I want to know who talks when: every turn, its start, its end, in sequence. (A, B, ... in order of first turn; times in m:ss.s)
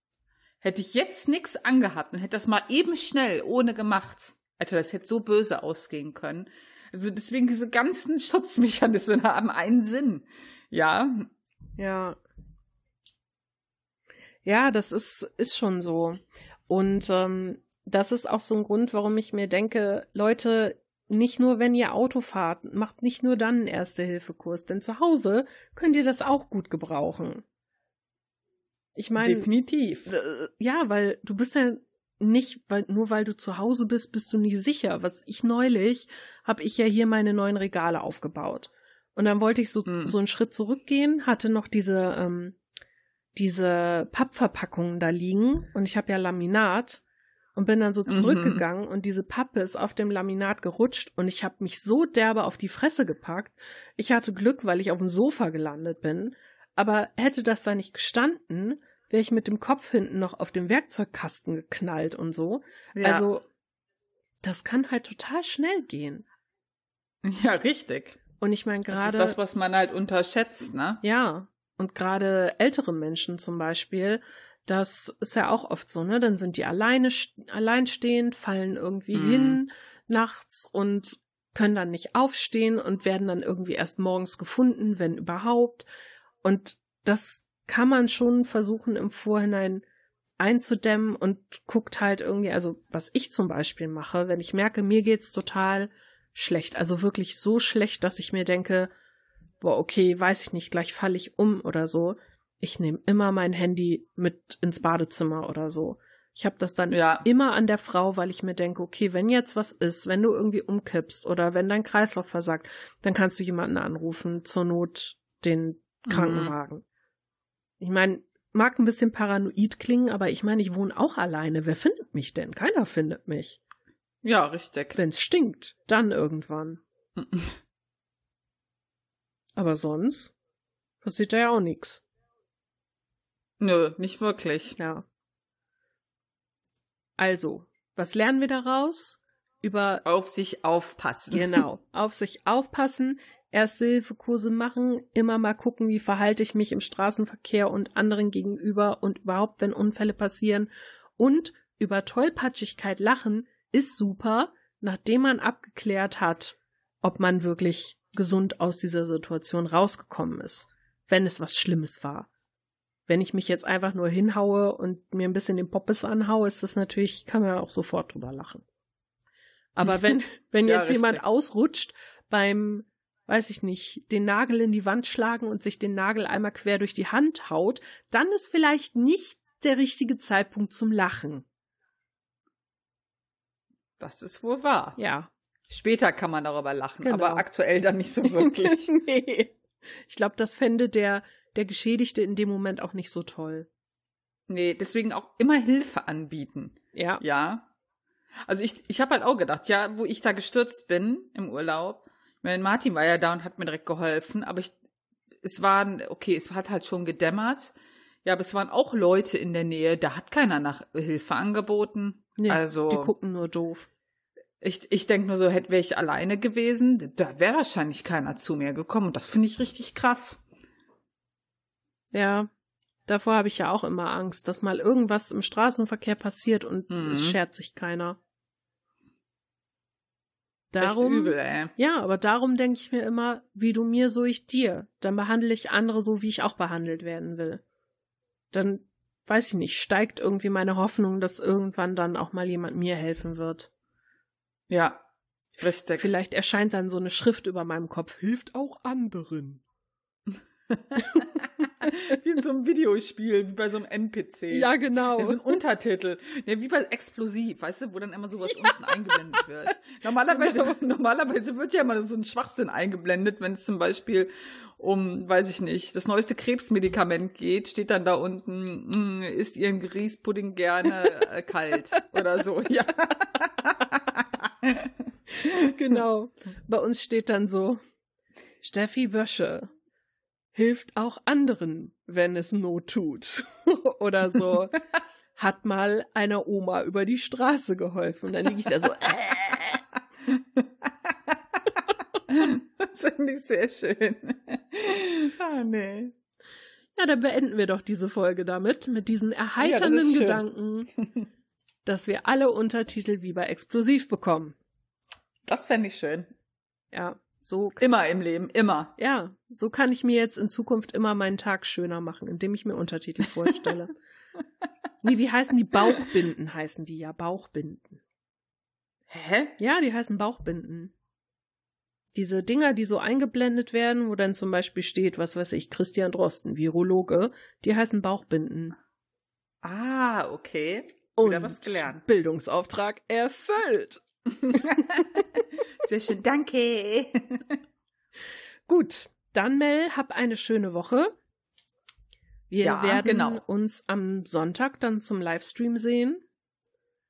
0:00.6-0:11.3 A
0:11.8-0:12.2 B
0:14.4-0:27.4 B
0:29.0-0:29.5 B
0:29.2-0:30.1 A
0:30.1-0:42.6 B
0:39.9-0:40.1 A
0:43.4-0:47.0 B
0:47.6-1:03.4 B
0:48.1-0:48.6 A
1:02.9-1:03.3 A
1:04.4-1:06.2 B
1:07.2-1:08.2 A
1:08.4-1:09.4 B
1:08.9-1:11.0 A
1:11.0-1:25.9 B
1:19.1-1:19.6 A
1:26.4-1:29.8 B
1:30.4-1:38.9 B
1:39.6-1:56.8 B
1:46.9-1:47.3 A
1:56.1-1:56.5 A
1:57.8-2:03.6 B
2:04.2-2:05.0 A
2:05.0-2:06.8 B
2:07.2-2:07.6 A
2:09.6-2:10.3 B
2:11.0-2:12.0 B
2:13.6-2:14.8 A
2:14.8-2:15.0 B
2:17.2-2:20.0 B
2:20.0-2:21.6 A
2:21.3-2:42.3 B
2:43.1-2:48.6 B
2:49.8-3:01.4 B
2:49.9-2:51.2 A
3:04.0-3:05.0 A
3:05.0-3:05.3 B
3:05.7-3:08.9 A
3:07.0-3:07.4 B
3:08.3-3:09.6 B
3:10.1-3:13.7 B
3:14.5-3:17.7 A
3:17.0-3:17.2 B
3:18.4-3:24.7 A
3:25.4-3:27.7 A
3:28.2-3:33.1 A
3:32.4-3:33.9 B
3:34.6-3:40.4 A
3:42.1-3:42.5 B
3:43.1-3:48.2 B
3:46.9-3:47.4 A
3:50.7-3:57.6 B
3:50.8-3:51.7 A
3:58.5-4:03.7 B
4:04.7-4:05.0 A
4:05.6-4:06.1 A
4:06.0-4:09.6 B
4:10.7-4:34.9 A
4:14.5-4:15.6 B
4:18.6-4:19.4 B
4:20.2-4:20.8 B
4:35.4-4:37.8 B
4:38.6-4:39.7 B
4:40.6-4:44.8 B
4:45.4-4:49.8 B
4:50.3-4:51.4 A
4:52.3-4:56.1 A
4:57.0-5:00.9 B
4:59.6-5:00.4 A
5:01.8-5:04.6 B
5:05.4-5:06.3 A
5:06.9-5:07.8 B
5:07.8-5:08.9 A
5:09.0-5:13.9 B
5:15.0-5:18.0 B
5:19.1-5:19.5 A
5:19.6-5:20.9 B
5:22.1-5:28.8 B
5:29.6-5:32.0 A
5:31.2-5:35.2 B
5:34.5-5:35.2 A
5:35.8-5:37.6 A
5:38.7-5:41.1 B
5:42.5-5:46.2 B
5:42.6-5:43.4 A